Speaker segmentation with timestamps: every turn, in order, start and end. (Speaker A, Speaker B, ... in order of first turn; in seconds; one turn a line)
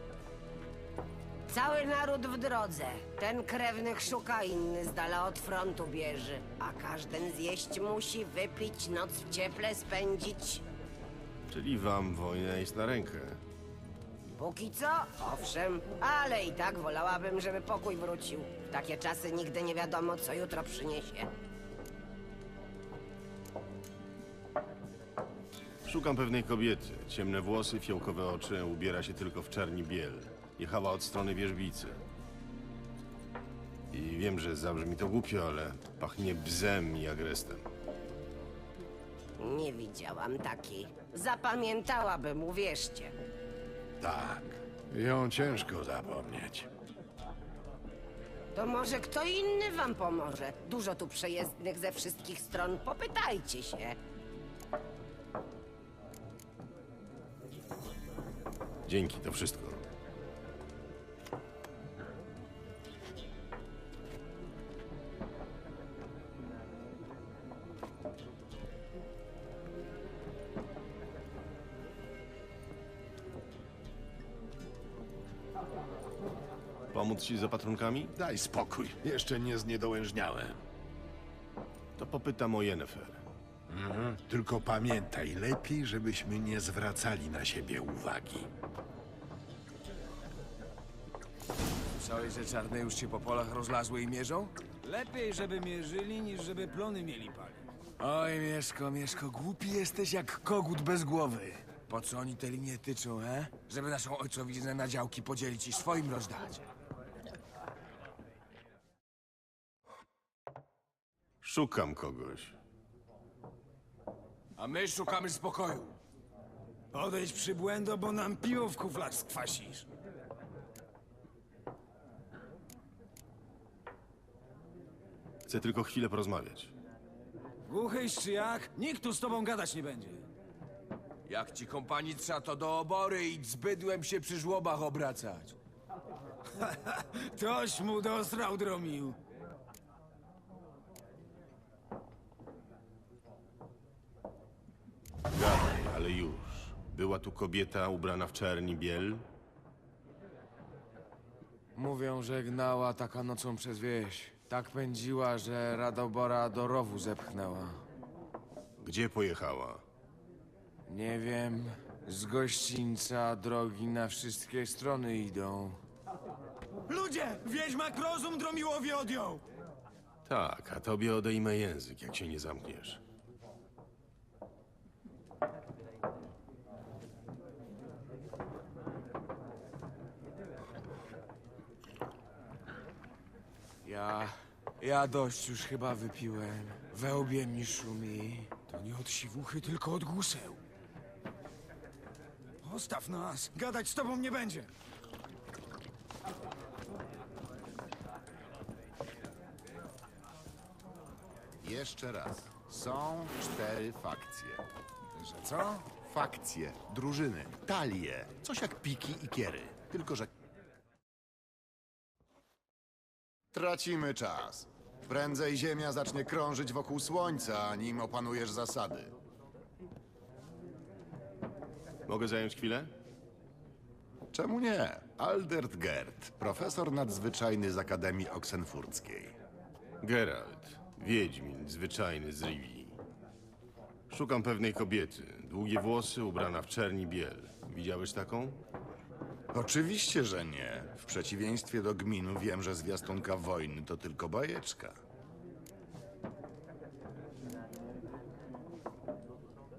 Speaker A: 1.5-10.6
Speaker B: 11.5-13.4
Speaker A: 14.4-21.3
Speaker B: 25.9-32.0
Speaker B: 33.9-37.6
Speaker A: 39.4-43.1
Speaker C: 44.0-46.7
Speaker A: 48.5-54.0
Speaker B: 58.9-59.8
Speaker B: 76.9-78.1
Speaker C: 78.2-80.6
Speaker B: 82.0-83.2
Speaker C: 83.7-88.5
Speaker D: 91.9-94.5
Speaker E: 94.8-97.6
Speaker D: 98.0-106.6
Speaker B: 111.4-112.6
Speaker D: 114.6-116.0
Speaker E: 116.9-119.9
Speaker B: 125.5-126.7
Speaker E: 127.7-130.2
Speaker D: 131.3-135.6
Speaker E: 136.6-139.2
Speaker B: 145.3-149.2
Speaker D: 151.8-157.8
Speaker B: 158.8-159.8
Speaker D: 160.9-165.8
Speaker E: 166.9-169.4
Speaker B: 170.2-173.0
Speaker D: 183.8-190.6
Speaker E: 192.6-194.7
Speaker F: 201.6-204.6
Speaker D: 205.2-205.8
Speaker F: 206.1-210.3
Speaker F: 213.5-219.2
Speaker B: 222.1-222.9
Speaker F: 224.3-229.4
Speaker B: 230.0-233.0
Speaker B: 234.1-238.6
Speaker F: 239.5-245.0